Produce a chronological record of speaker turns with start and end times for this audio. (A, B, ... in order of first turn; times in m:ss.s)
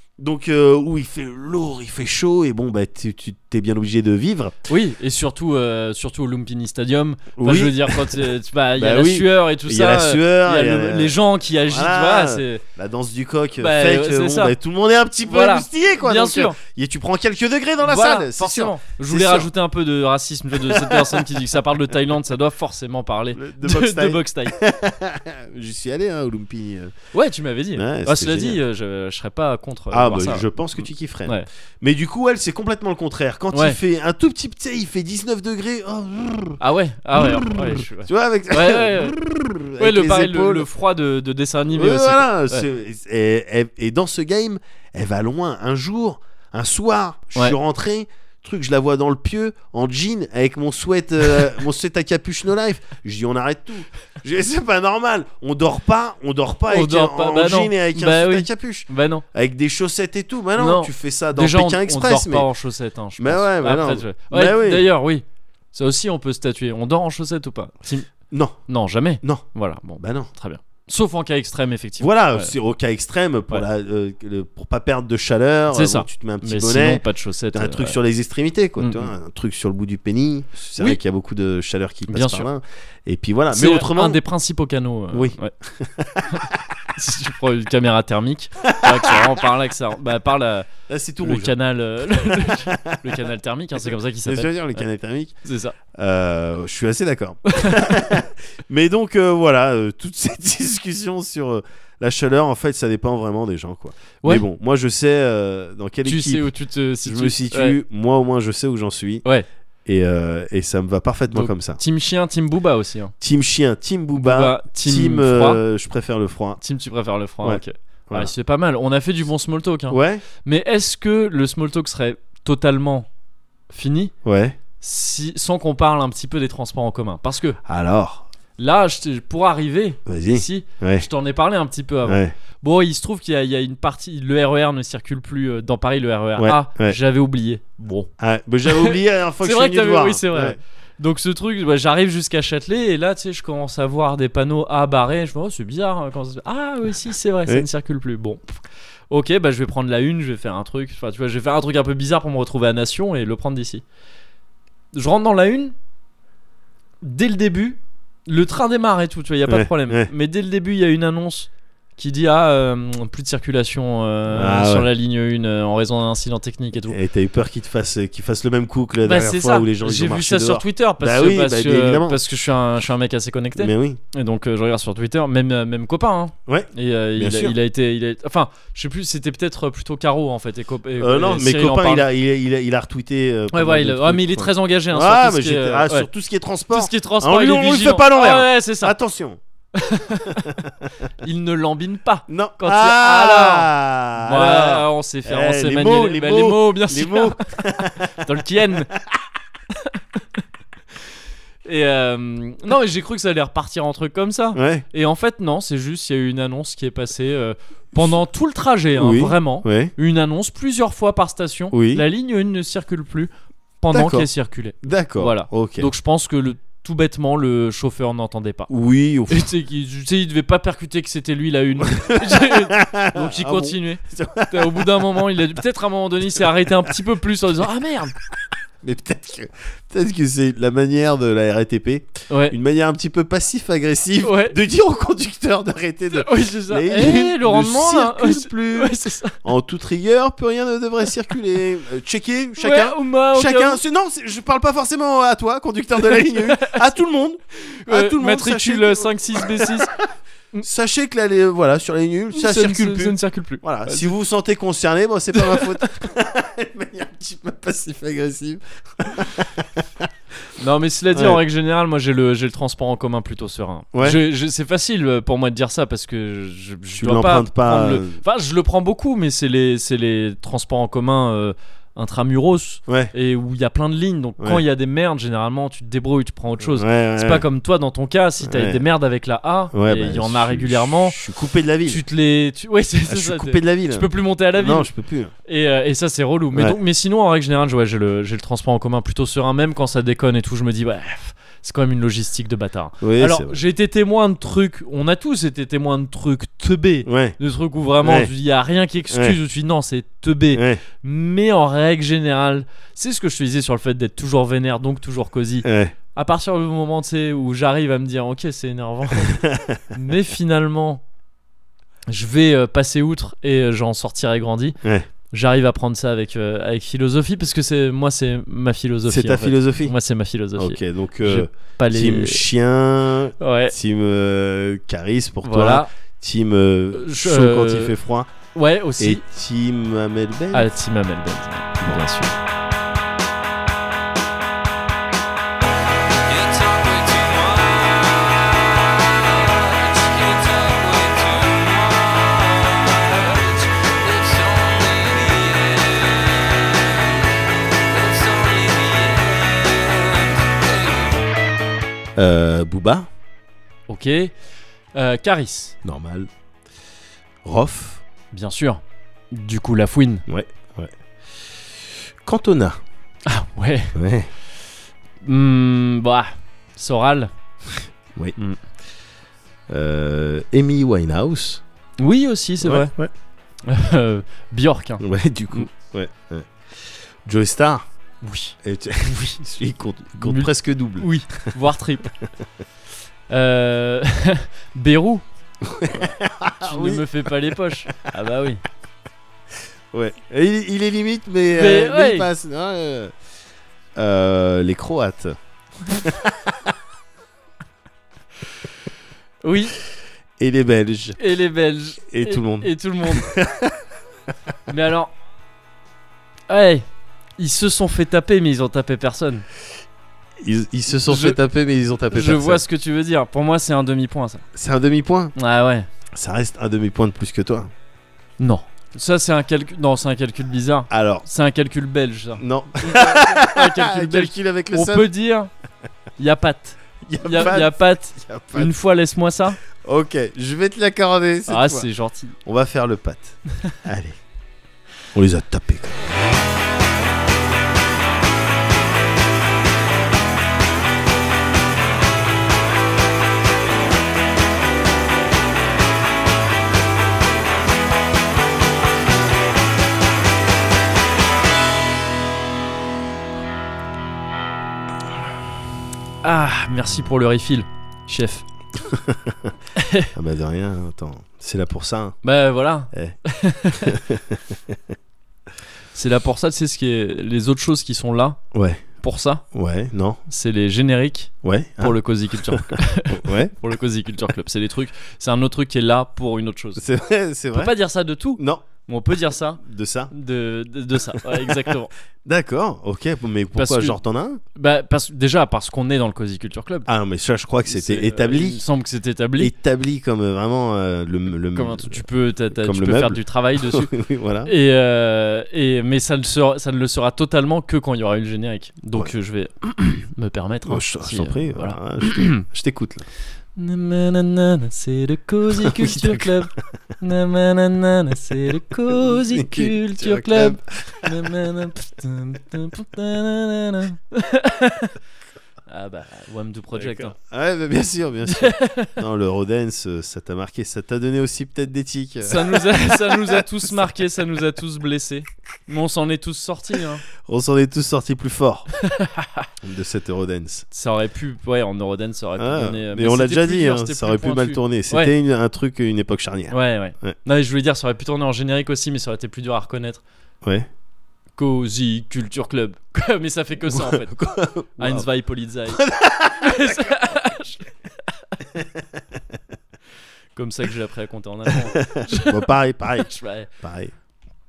0:00.2-0:04.6 A
0:04.7-0:12.6 B
0:07.4-0:19.5 A
0:13.6-0:14.6 B
0:15.3-0:16.6 B
0:17.8-0:24.6 B
0:20.6-0:21.4 A
0:23.4-0:27.0 A
0:27.1-0:31.5 B
0:27.8-0:28.6 A
0:29.9-0:36.6 A
0:33.5-0:33.8 B
0:36.6-0:39.2 B
0:37.2-0:40.7 A
0:39.8-0:42.6 B
0:41.7-1:02.5 A
0:56.7-0:59.2 B
1:00.6-1:08.1 B
1:03.2-1:04.9 A
1:08.3-1:08.6 A
1:08.7-1:12.5 B
1:10.0-1:10.3 A
1:12.0-1:24.2 A
1:15.7-1:18.0 B
1:18.8-1:19.1 B
1:22.1-1:22.5 B
1:23.5-1:25.5 B
1:25.1-1:26.6 A
1:26.3-1:30.7 B
1:28.6-1:29.3 A
1:30.9-1:31.6 A
1:31.2-1:34.8 B
1:32.2-1:33.2 A
1:34.2-1:35.4 A
1:35.4-1:35.8 B
1:35.9-1:46.5 A
1:37.5-1:38.0 B
1:46.0-1:47.8 B
1:47.0-1:49.2 A
1:49.9-1:51.8 A
1:51.3-1:53.1 B
1:53.2-1:56.6 A
1:54.2-1:55.6 B
1:56.6-2:03.1 B
1:57.4-1:58.3 A
1:59.9-2:00.2 A
2:03.7-2:04.1 B
2:04.2-2:04.6 A
2:04.8-2:07.6 B
2:07.7-2:08.3 A
2:08.6-2:18.1 B
2:10.1-2:11.1 A
2:12.1-2:12.3 A
2:16.4-2:17.0 A
2:18.2-2:20.6 A
2:18.7-2:28.4 B
2:29.1-2:33.8 B
2:34.9-2:35.7 B
2:37.0-2:47.0 B
2:39.5-2:40.1 A
2:44.3-2:44.9 A
2:46.9-2:52.2 A
2:49.0-3:02.0 B
2:53.6-2:54.0 A
2:56.5-2:57.6 A
3:01.0-3:09.4 A
3:03.5-3:06.1 B
3:06.7-3:09.0 B
3:09.8-3:10.6 B
3:10.4-3:10.9 A
3:11.2-3:17.4 B
3:12.3-3:18.3 A
3:18.2-3:18.9 B
3:21.6-3:33.3 B
3:24.6-3:24.8 A
3:29.0-3:29.9 A
3:31.7-3:32.0 A
3:33.8-3:38.7 B
3:33.9-3:34.3 A
3:34.8-3:35.9 A
3:38.7-3:39.5 A
3:39.3-3:48.2 B
3:41.8-3:45.1 A
3:48.8-4:10.1 A
3:52.3-3:52.6 B
3:54.2-3:54.6 B
3:56.1-3:59.4 B
4:02.6-4:03.8 B
4:06.1-4:06.8 B
4:07.6-4:09.9 B
4:10.6-4:20.1 A
4:12.3-4:14.1 B
4:15.3-4:15.9 B
4:20.6-4:41.2 B
4:21.1-4:21.4 A
4:23.9-4:24.2 A
4:27.0-4:28.2 A
4:32.9-4:33.1 A
4:36.6-4:37.4 A
4:38.4-4:38.8 A
4:39.7-4:42.0 A
4:41.9-4:44.9 B
4:43.1-4:45.3 A
4:45.5-5:11.0 B
4:53.0-4:53.6 A
4:57.0-4:57.4 A
4:58.0-4:58.3 A
4:59.1-4:59.4 A
5:00.5-5:00.8 A
5:05.6-5:05.9 A
5:09.2-5:09.8 A
5:12.1-5:14.8 B
5:15.3-5:22.5 B
5:19.1-5:19.9 A
5:20.6-5:28.3 A
5:23.4-5:23.7 B
5:25.4-5:25.9 B
5:26.9-5:28.0 B
5:28.5-5:29.2 B
5:29.0-5:30.7 A
5:30.5-5:32.4 B
5:31.8-5:32.1 A
5:36.2-5:47.0 C
5:47.9-5:51.2 C
5:52.2-5:53.1 A
5:53.9-5:54.3 B
5:55.0-5:55.8 B
5:55.8-5:56.3 A
5:57.4-5:58.0 A
5:58.3-6:00.2 B
6:00.3-6:00.9 A
6:02.2-6:02.8 A
6:03.3-6:03.9 B
6:04.0-6:04.3 A
6:05.2-6:07.3 B
6:09.7-6:11.6 A
6:12.0-6:12.9 B
6:12.6-6:13.1 A
6:13.7-6:15.7 B
6:15.0-6:17.8 A
6:18.2-6:18.6 B
6:18.6-6:21.5 A
6:19.1-6:19.3 B
6:20.2-6:22.1 B
6:23.3-6:25.2 B
6:25.6-6:27.3 A
6:25.9-6:28.6 B
6:29.9-6:33.1 A
6:31.5-6:32.3 B
6:34.0-6:35.4 A
6:35.9-6:36.7 A
6:39.4-6:39.8 B
6:40.4-6:41.2 A
6:41.2-6:43.3 B
6:42.1-6:43.8 A
6:44.7-6:45.1 B
6:46.5-6:46.9 B
6:47.4-6:49.4 B
6:50.4-6:52.6 A
6:51.0-6:51.4 B
6:52.1-6:54.4 B
6:54.6-6:55.3 A
6:55.4-6:55.9 B
6:56.2-6:57.7 A
6:58.4-7:05.5 B
7:00.9-7:01.2 A
7:02.4-7:05.1 A
7:06.2-7:09.6 B
7:07.0-7:08.7 A
7:09.8-7:11.9 A
7:11.5-7:12.4 B
7:12.4-7:14.2 A
7:15.1-7:16.0 A
7:36.2-7:38.4 B
7:38.9-7:39.5 A
7:39.8-7:40.1 B
7:40.2-7:42.2 A
7:42.2-7:44.0 B
7:43.8-7:45.0 A
7:45.9-7:48.4 B
7:48.5-7:48.8 A
7:49.0-7:49.4 B
7:49.5-7:50.2 A
7:50.3-7:56.8 B
7:51.4-7:53.5 A
7:56.8-7:57.7 A
7:57.5-7:59.6 B
7:58.4-7:58.6 A
7:59.6-8:00.1 A
8:00.1-8:01.9 B
8:01.2-8:01.7 A
8:02.2-8:04.4 A
8:03.6-8:04.0 B
8:04.6-8:06.9 B
8:06.9-8:08.6 A
8:07.7-8:09.5 B
8:09.4-8:14.5 A
8:11.5-8:13.9 B
8:14.4-8:22.4 B
8:20.7-8:23.0 A
8:23.6-8:35.0 B
8:25.6-8:26.4 A
8:28.9-8:31.1 A
8:35.7-8:37.2 B
8:36.7-8:43.5 A
8:38.3-8:39.0 B
8:42.2-8:47.0 B
8:47.2-8:48.7 A
8:48.8-8:49.5 B
8:49.6-8:50.6 A
8:50.7-8:55.1 B
8:52.4-8:57.2 A
8:56.5-9:00.0 B
9:01.4-9:04.2 B
9:03.7-9:05.1 A
9:04.8-9:08.3 B
9:05.7-9:06.9 A
9:08.6-9:09.0 A
9:10.4-9:12.4 B
9:11.5-9:13.9 A
9:13.0-9:13.5 B